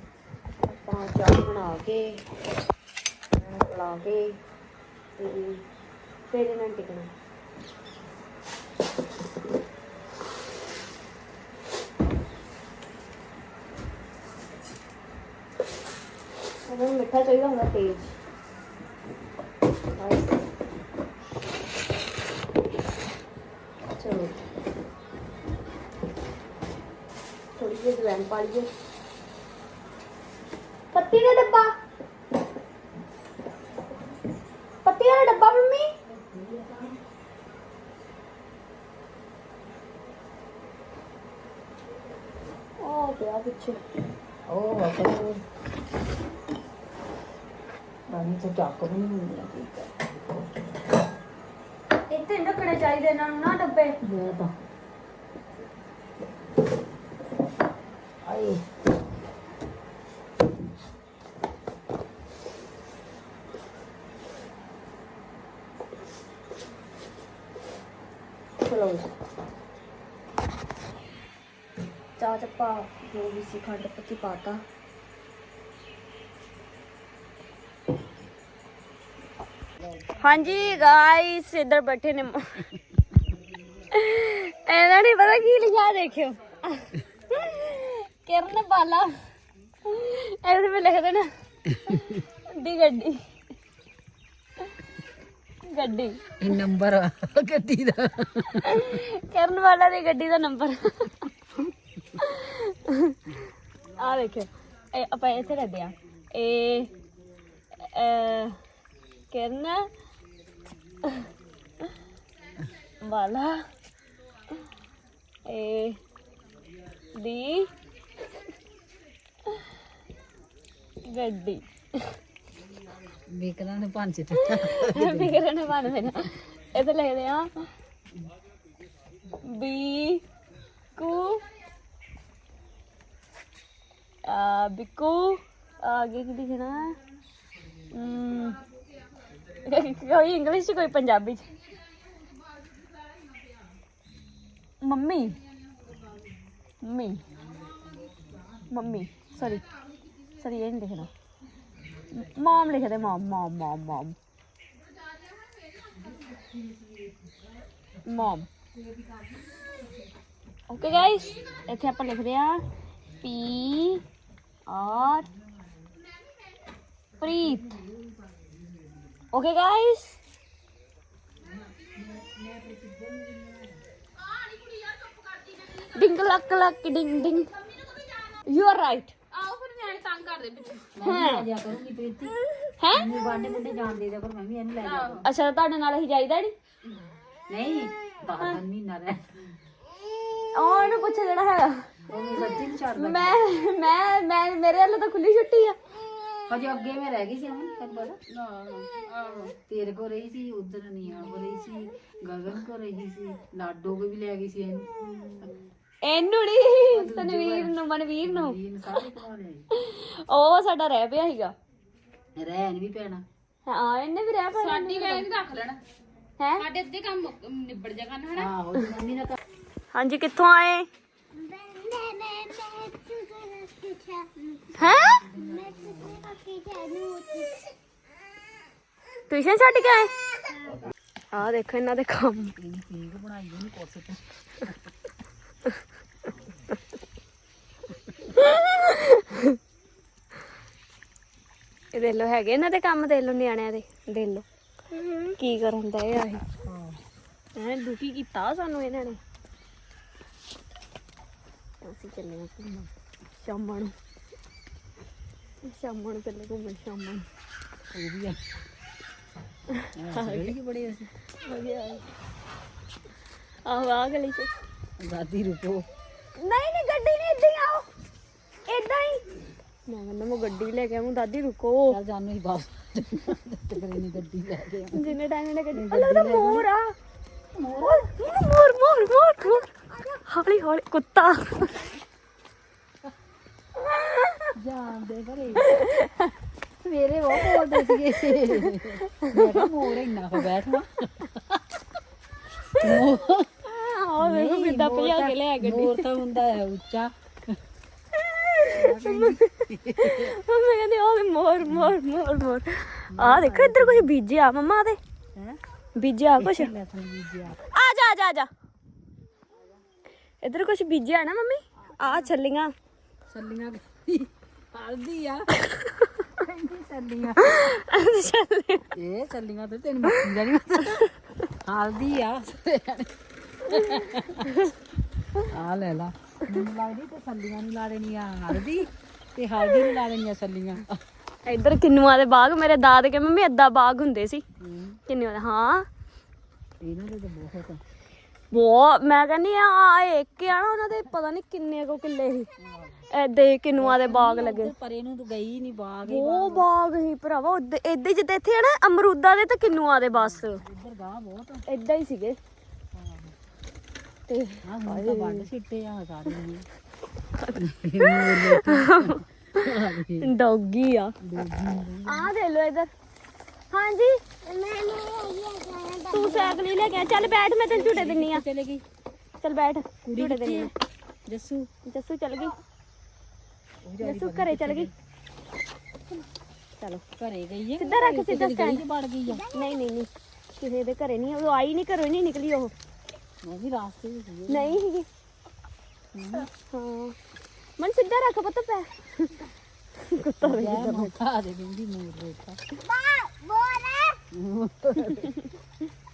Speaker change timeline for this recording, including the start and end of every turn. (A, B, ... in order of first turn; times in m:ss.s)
0:00.6-0:02.2 A
0:03.4-0:04.4 A
0:05.2-0:05.6 A
0:06.3-0:07.1 A
0:16.6-0:18.2 A
0:20.0-0:20.4 A
0:24.0-0:24.4 A
0:27.6-0:28.7 A
0:30.9-0:31.7 A
0:34.8-0:35.9 A
0:36.1-0:37.0 B
0:42.8-0:43.8 A
0:44.5-0:45.4 B
0:48.1-0:49.9 B
0:52.1-0:54.0 A
0:54.0-0:54.5 B
0:58.2-0:58.6 B
1:08.6-1:09.1 A
1:12.2-1:14.6 A
1:20.1-1:22.7 A
1:23.2-1:23.6 B
1:23.9-1:29.1 A
1:29.8-1:31.3 A
1:31.7-1:32.2 B
1:31.9-1:33.2 A
1:35.6-1:36.2 A
1:36.4-1:38.8 B
1:38.6-1:41.3 A
1:42.2-1:43.3 A
1:44.0-1:46.9 A
1:47.8-1:48.6 A
1:49.3-1:49.9 A
1:53.0-1:53.6 A
1:55.5-1:56.0 A
1:57.1-1:57.7 A
2:01.0-2:02.1 A
2:03.1-2:05.4 B
2:04.3-2:07.6 A
2:09.4-2:10.2 A
2:10.9-2:11.4 A
2:14.2-2:17.0 A
2:17.9-2:18.6 A
2:19.5-2:21.5 A
2:22.5-2:23.6 C
2:24.8-2:25.4 A
2:26.8-2:27.2 A
2:27.3-2:29.0 B
2:28.7-2:29.6 A
2:30.4-2:31.1 A
2:32.1-2:34.2 A
2:35.9-2:37.2 B
2:38.0-2:38.5 A
2:38.7-2:39.9 B
2:40.7-2:42.6 A
2:43.2-2:44.0 A
2:44.7-2:45.3 A
2:45.5-2:45.8 B
2:47.2-2:49.2 B
2:47.2-2:47.8 A
2:49.3-2:50.2 A
2:51.4-2:53.8 B
2:54.3-2:56.3 C
2:55.9-2:57.5 A
2:57.9-2:58.2 C
2:58.4-2:59.1 A
2:59.3-3:00.9 C
3:01.0-3:05.2 B
3:01.0-3:01.5 A
3:02.6-3:03.3 A
3:04.8-3:05.2 C
3:05.2-3:06.5 A
3:07.5-3:09.4 B
3:10.5-3:11.9 A
3:12.1-3:13.4 B
3:12.4-3:15.8 A
3:16.5-3:18.2 B
3:18.3-3:19.6 C
3:19.6-3:25.6 B
3:26.0-3:28.6 A
3:26.9-3:29.7 B
3:29.7-3:31.5 A
3:32.3-3:33.2 B
3:33.6-3:35.3 A
3:34.5-3:35.8 C
3:36.4-3:36.6 A
3:36.6-3:38.5 C
3:38.3-3:39.4 B
3:39.9-3:40.9 A
3:41.3-3:44.7 D
3:44.7-3:45.2 A
3:44.8-3:46.4 B
3:45.3-3:47.7 D
3:49.3-3:50.1 A
3:51.3-3:52.5 A
3:52.6-3:54.8 B
3:58.2-3:59.6 A
4:01.9-4:06.4 A
4:06.6-4:07.0 B
4:07.5-4:09.2 A
4:11.8-4:13.9 A
4:15.6-4:17.2 A
4:17.9-4:18.4 B
4:19.8-4:20.5 A
4:19.9-4:21.1 B
4:21.4-4:22.0 A
4:23.6-4:24.5 A
4:25.0-4:25.9 B
4:26.4-4:27.9 A
4:28.7-4:29.2 A
4:29.9-4:32.0 A
4:31.9-4:35.2 B
4:34.9-4:36.9 A
4:35.7-4:36.7 B
4:37.5-4:38.1 B
4:37.8-4:39.7 A
4:39.7-4:40.2 D
4:40.2-4:41.9 A
4:43.8-4:44.5 A
4:44.5-4:45.8 B
4:45.6-4:46.3 A
4:46.8-4:51.6 B
4:47.4-4:49.7 A
4:52.8-4:53.5 B
4:53.6-4:56.0 A
4:54.2-4:57.6 B
4:58.2-5:05.0 A
4:58.7-5:00.3 B
5:01.6-5:02.0 B
5:03.1-5:04.1 B
5:06.0-5:06.7 A
5:06.4-5:07.6 B
5:07.7-5:08.5 A
5:10.4-5:12.7 A
5:12.0-5:12.3 B
5:13.3-5:15.5 B
5:16.3-5:17.7 B
5:17.4-5:18.9 A
5:18.9-5:21.1 B
5:20.0-5:20.3 A
5:21.6-5:24.6 B
5:23.7-5:24.7 A
5:25.5-5:31.0 B
5:31.4-5:34.4 A
5:34.6-5:35.0 B
5:35.1-5:35.9 A
5:36.8-5:37.8 B
5:38.5-5:42.5 A
5:42.6-5:43.0 B
5:43.1-5:44.7 A
5:43.8-5:46.7 B
5:46.0-5:50.6 A
5:50.1-5:51.6 B
5:51.7-5:52.4 A
5:52.9-5:53.3 B
5:54.3-5:55.5 A
5:54.6-5:56.7 B
5:57.4-5:59.6 A
5:57.5-6:00.3 B
6:00.2-6:01.1 A
6:01.2-6:02.3 B
6:02.0-6:02.9 A
6:03.7-6:04.2 A
6:04.4-6:06.6 D
6:06.1-6:08.4 A
6:07.0-6:08.8 B
6:09.4-6:10.7 A
6:10.0-6:10.7 B
6:11.2-6:11.7 B
6:11.8-6:12.6 A
6:13.8-6:14.9 B
6:14.0-6:14.9 A
6:17.2-6:19.5 B
6:17.8-6:18.8 A
6:19.5-6:22.7 A
6:23.4-6:24.8 B
6:24.5-6:25.1 A
6:26.1-6:26.5 B
6:26.4-6:27.2 A
6:27.8-6:29.4 A
6:30.0-6:31.2 A
6:30.4-6:32.6 B
6:32.8-6:34.2 D
6:34.3-6:35.3 B
6:35.1-6:35.5 A